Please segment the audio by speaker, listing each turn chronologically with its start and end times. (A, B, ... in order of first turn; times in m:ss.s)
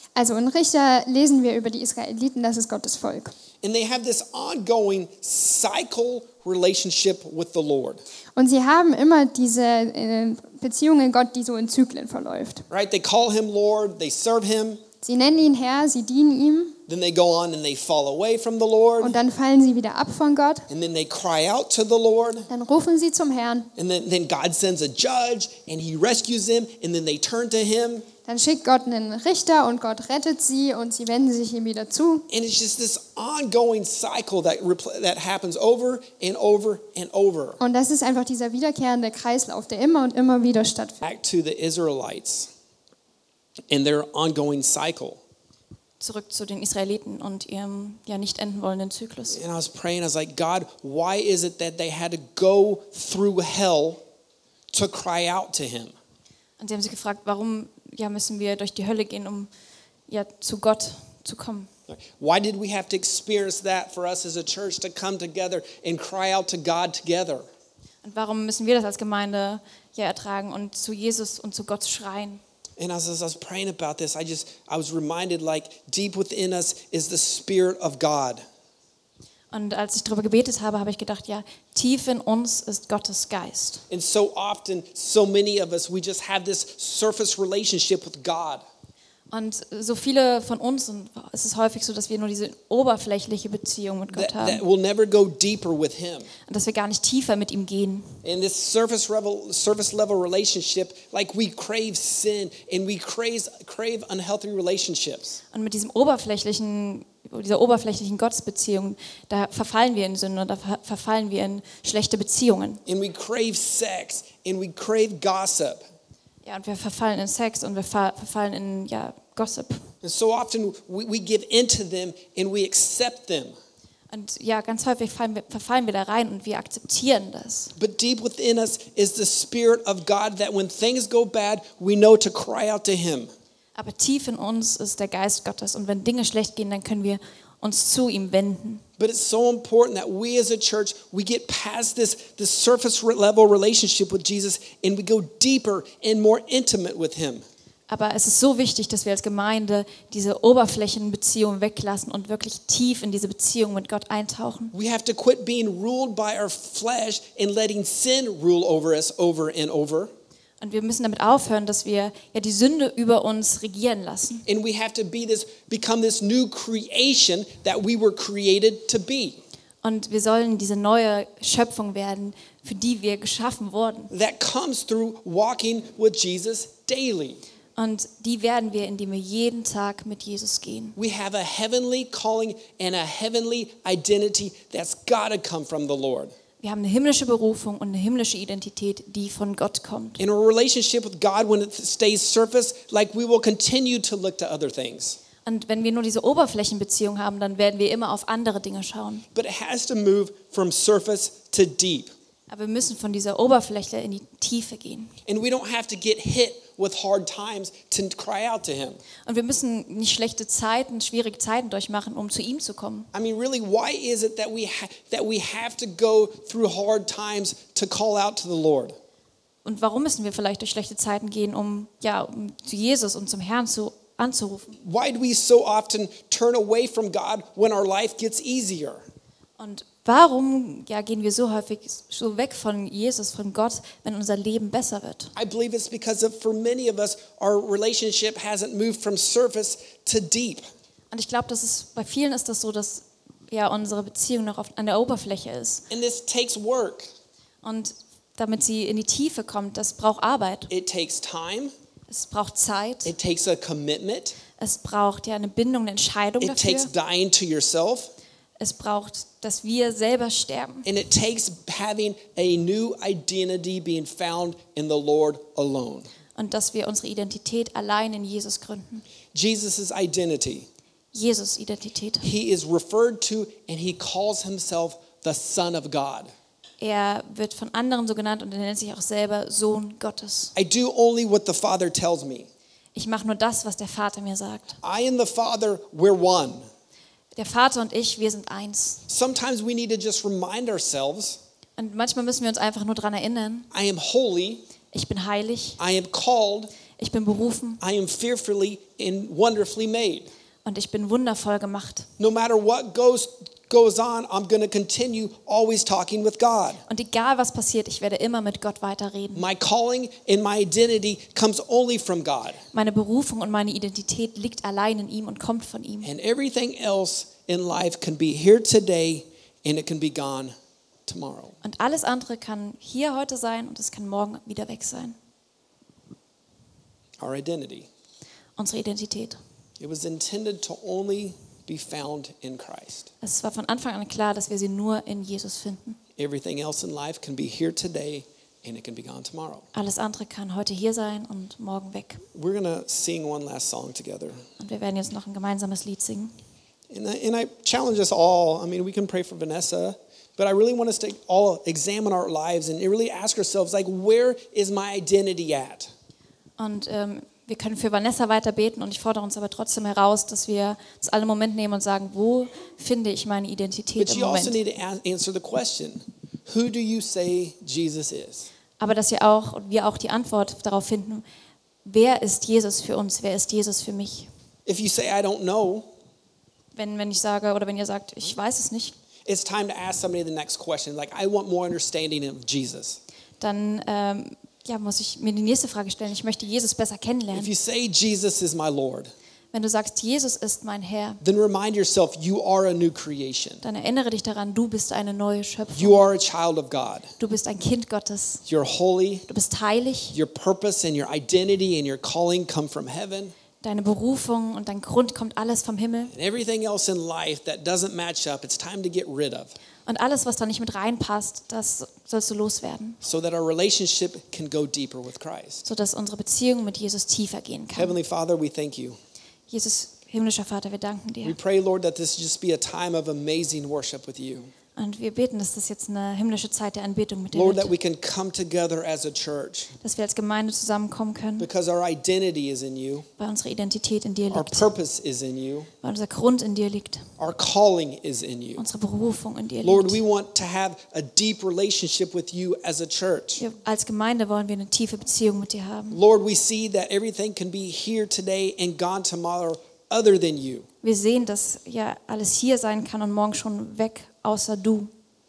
0:00.2-0:03.3 A
0:03.6-0:08.0 B
0:08.4-0:12.6 A
0:12.7-0:14.8 B
0:15.0-0:16.8 A
0:16.9-0:19.2 B
0:19.0-0:20.7 A
0:20.7-0:22.5 B
0:22.5-0:23.7 A
0:23.8-0:28.1 B
0:28.2-0:32.3 A
0:32.3-0:37.6 B
0:37.6-0:41.0 A
0:41.0-0:42.5 B
0:43.7-0:45.2 B
0:46.0-0:49.4 C
0:49.3-0:54.0 B
0:54.7-0:55.9 B
0:56.6-0:59.5 C
1:00.1-1:01.7 C
1:01.9-1:07.4 B
1:08.0-1:12.4 C
1:12.8-1:18.4 B
1:19.5-1:23.8 C
1:23.9-1:28.6 B
1:29.3-1:34.6 C
1:34.1-1:36.3 B
1:36.5-1:38.2 C
1:38.2-1:45.4 B
1:45.5-1:52.8 C
1:52.8-1:55.8 B
1:56.4-1:59.9 C
2:00.0-2:03.5 B
2:04.1-2:07.7 C
2:07.8-2:13.3 B
2:13.8-2:18.8 C
2:19.0-2:27.4 B
2:27.9-2:34.7 C
2:34.7-2:40.1 B
2:40.6-2:44.4 C
2:44.4-2:49.4 B
2:49.8-2:54.1 C
2:54.1-2:57.4 B
2:57.8-3:01.0 C
3:01.0-3:06.3 B
3:06.6-3:10.2 C
3:10.2-3:15.2 B
3:15.4-3:19.2 C
3:19.3-3:22.1 B
3:22.5-3:25.1 C
3:25.3-3:29.0 B
3:29.2-3:33.1 C
3:33.1-3:39.0 B
3:39.6-3:44.8 C
3:44.8-3:49.0 B
3:49.6-3:55.3 C
3:55.4-4:00.6 B
4:01.1-4:05.8 C
4:05.9-4:07.1 B
4:07.6-4:10.7 C
4:10.7-4:11.7 B
4:12.1-4:13.1 C
4:13.0-4:14.4 B
4:14.6-4:16.9 C
4:16.4-4:18.1 B
4:18.6-4:20.8 C
4:20.8-4:26.1 B
4:26.4-4:29.0 C
4:29.3-4:30.7 B
4:31.1-4:32.2 C
4:32.2-4:36.3 B
4:36.8-4:40.5 C
4:40.6-4:42.5 B
4:42.9-4:44.8 C
4:44.8-4:46.7 B
4:47.3-4:49.0 C
4:49.1-4:51.4 B
4:51.8-4:53.7 C
4:53.7-4:54.6 B
4:54.9-4:55.8 C
4:55.8-4:56.7 B
4:57.0-4:57.8 C
4:57.8-5:00.3 B
5:00.6-5:02.1 C
5:02.2-5:06.8 B
5:06.9-5:09.5 C
5:09.3-5:12.6 B
5:12.7-5:16.1 C
5:16.0-5:20.5 B
5:21.0-5:21.6 B
5:21.6-5:25.2 C
5:27.2-5:27.9 B
5:28.6-5:29.4 C
5:29.8-5:33.1 B
5:33.2-5:36.0 C
5:36.2-5:39.6 B
5:39.7-5:42.2 C
5:42.3-5:44.4 B
5:44.6-5:46.3 C
5:46.9-5:55.9 B
5:56.6-6:04.6 C
6:04.0-6:08.5 B
6:08.8-6:11.2 C
6:11.8-6:14.3 C
6:14.7-6:15.9 B
6:16.7-6:18.9 C
6:19.2-6:23.0 B
6:23.4-6:27.5 C
6:27.3-6:29.1 B
6:29.5-6:31.2 C
6:31.2-6:33.6 B
6:33.6-6:36.0 C
6:35.7-6:37.1 B
6:37.2-6:38.4 C
6:38.5-6:39.2 B
6:39.3-6:40.2 C
6:40.1-6:43.3 B
6:43.6-6:46.1 C
6:46.1-6:49.5 B
6:49.8-6:53.0 C
6:53.0-6:55.6 B
6:55.6-6:58.0 C
6:57.8-6:59.0 B
6:59.5-7:01.4 C
7:01.2-7:04.5 B
7:04.8-7:07.7 C
7:07.3-7:09.7 B
7:09.8-7:11.5 C
7:11.4-7:13.1 B
7:13.2-7:14.7 C
7:14.3-7:15.7 B
7:15.8-7:17.1 C
7:17.2-7:18.6 B
7:18.6-7:20.0 C
7:19.6-7:23.4 B
7:23.4-7:26.0 C
7:25.9-7:30.6 B
7:30.8-7:34.9 C